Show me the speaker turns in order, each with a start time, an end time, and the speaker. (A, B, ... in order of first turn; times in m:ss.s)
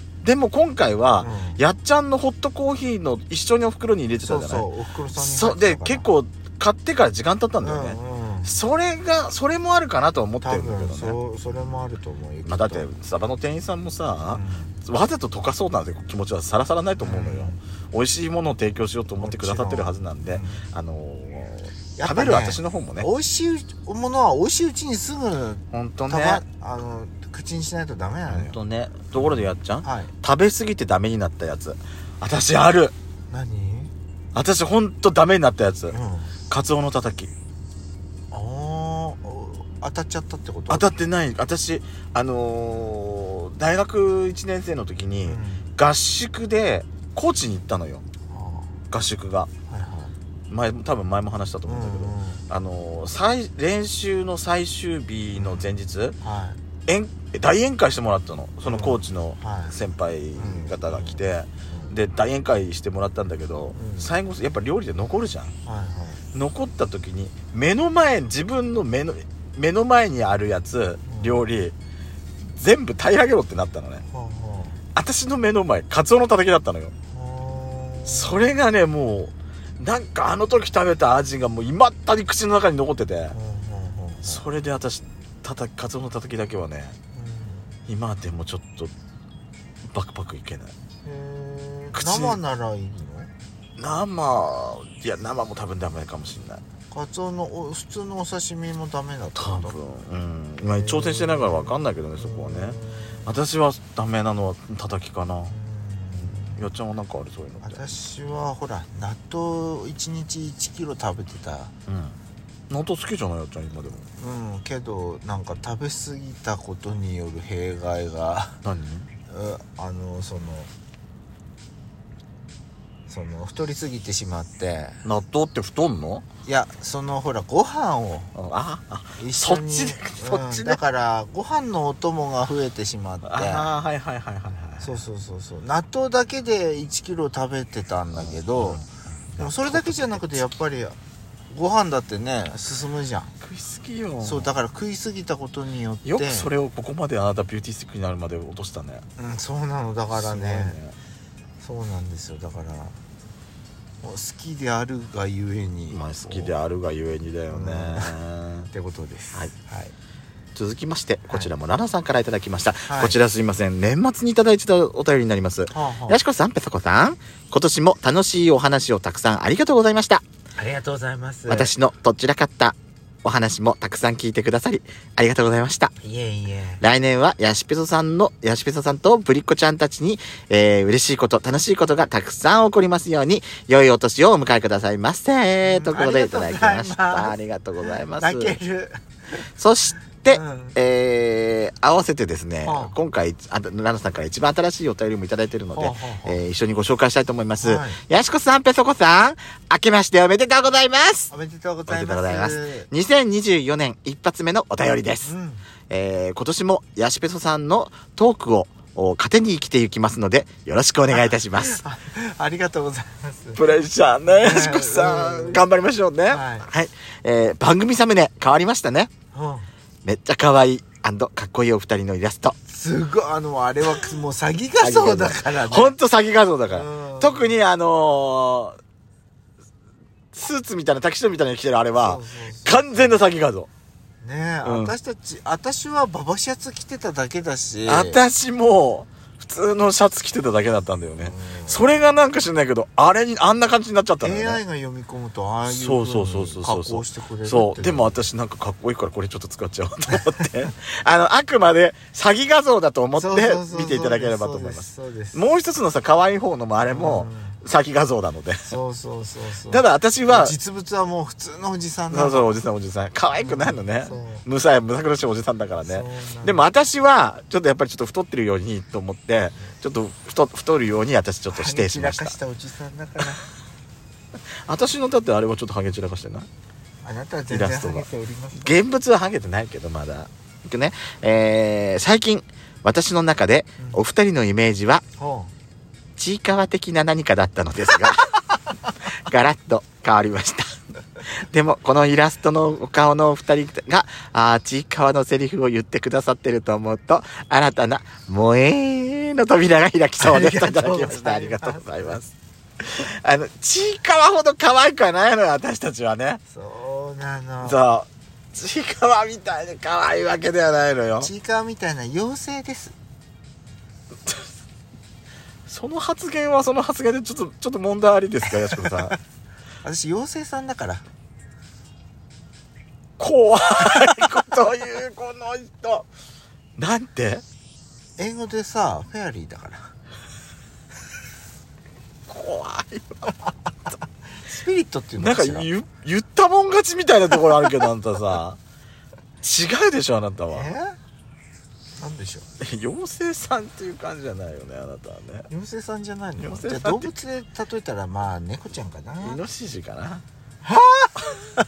0:00.2-0:11.7 A
0:01.2-0:01.6 B
0:04.2-0:06.1 B
0:07.6-0:08.6 B
0:10.4-0:12.9 B
0:12.4-0:23.1 A
0:14.3-0:14.8 B
0:17.0-0:17.6 B
0:19.2-0:20.7 B
0:22.0-0:28.6 B
0:25.7-0:26.4 A
0:28.3-0:32.9 A
0:29.2-0:30.1 B
0:33.3-0:33.9 B
0:34.4-0:36.0 A
0:35.9-0:36.3 B
0:36.5-0:37.3 A
0:38.3-0:40.9 B
0:40.7-0:48.0 A
0:45.2-0:45.6 B
0:48.3-0:48.8 B
0:48.9-0:49.5 A
0:49.7-0:50.1 B
0:50.5-0:56.2 A
0:51.7-0:52.4 B
0:55.3-0:56.6 B
0:56.9-1:05.5 A
0:58.6-0:59.8 B
1:00.4-1:01.9 B
1:03.7-1:04.1 B
1:05.6-1:06.2 B
1:06.3-1:11.7 A
1:11.1-1:11.5 B
1:12.4-1:14.0 A
1:14.1-1:14.8 B
1:14.9-1:16.9 A
1:17.1-1:18.5 B
1:18.1-1:23.4 A
1:23.3-1:24.4 B
1:24.2-1:27.0 A
1:27.1-1:27.7 B
1:27.9-1:28.9 A
1:29.8-1:30.7 A
1:31.0-1:33.3 B
1:31.9-1:32.4 A
1:33.8-1:36.6 A
1:36.9-1:39.8 B
1:39.4-1:45.6 A
1:40.6-1:43.3 B
1:45.5-1:46.7 B
1:46.2-1:47.8 A
1:47.6-1:51.7 B
1:51.9-1:52.2 A
1:52.7-1:54.1 A
1:54.2-1:58.6 B
1:58.6-1:59.1 A
1:59.3-2:00.7 B
2:03.1-2:05.0 B
2:05.0-2:06.2 A
2:06.4-2:08.3 B
2:08.4-2:10.8 A
2:09.2-2:13.7 B
2:13.2-2:15.0 A
2:14.8-2:18.8 B
2:18.2-2:20.5 A
2:19.4-2:21.0 B
2:21.5-2:23.3 B
2:23.4-2:24.5 A
2:24.2-2:26.5 B
2:26.0-2:29.0 A
2:29.2-2:30.8 B
2:30.1-2:31.0 A
2:31.6-2:33.0 B
2:34.0-2:36.5 B
2:35.9-2:38.7 A
2:37.5-2:38.2 B
2:38.7-2:39.9 B
2:40.6-2:50.2 A
2:42.9-2:43.2 B
2:45.7-2:46.2 B
2:50.6-2:51.7 B
2:51.5-2:55.9 A
2:56.0-2:56.8 B
2:56.8-3:08.6 A
3:05.6-3:09.0 B
3:09.6-3:21.3 A
3:10.3-3:10.8 B
3:12.6-3:13.0 B
3:15.7-3:16.4 B
3:17.6-3:18.0 B
3:21.3-3:22.9 B
3:21.9-3:25.3 A
3:25.2-3:25.6 B
3:25.9-3:31.8 A
3:31.1-3:35.6 B
3:33.6-3:39.1 A
3:36.3-3:36.7 B
3:39.3-3:39.7 B
3:40.0-3:42.6 A
3:42.7-3:46.0 B
3:44.8-3:48.8 A
3:46.7-3:47.6 B
3:50.3-3:53.7 A
3:52.0-3:53.2 B
3:54.2-3:58.2 B
3:54.6-3:54.9 A
3:57.9-4:04.6 A
4:01.2-4:01.9 B
4:04.2-4:08.2 B
4:05.7-4:18.7 A
4:13.2-4:15.5 B
4:16.9-4:17.6 B
4:18.7-4:22.6 B
4:19.7-4:20.5 A
4:22.1-4:32.4 A
4:23.4-4:24.5 B
4:25.8-4:26.6 B
4:31.5-4:33.4 B
4:34.7-4:36.5 A
4:37.0-4:38.8 B
4:37.5-4:45.0 A
4:45.2-4:45.5 B
4:46.2-4:48.3 A
4:49.1-4:50.7 A
4:51.2-5:06.4 A
5:00.2-5:02.2 B
5:06.5-5:07.8 B
5:07.6-5:11.3 A
5:11.2-5:13.0 B
5:15.7-5:19.2 A
5:19.8-5:21.0 B
5:23.2-5:26.1 A
5:26.8-5:27.4 A
5:28.2-5:29.9 B
5:32.3-5:33.3 A
5:34.5-5:35.7 B
5:35.2-5:38.6 A
5:39.4-5:40.7 A
5:40.5-5:41.0 B
5:42.0-5:42.5 B
5:42.6-5:45.5 A
5:45.5-5:49.4 B
5:46.4-5:47.1 A
5:49.2-5:50.2 A
5:50.6-5:51.5 B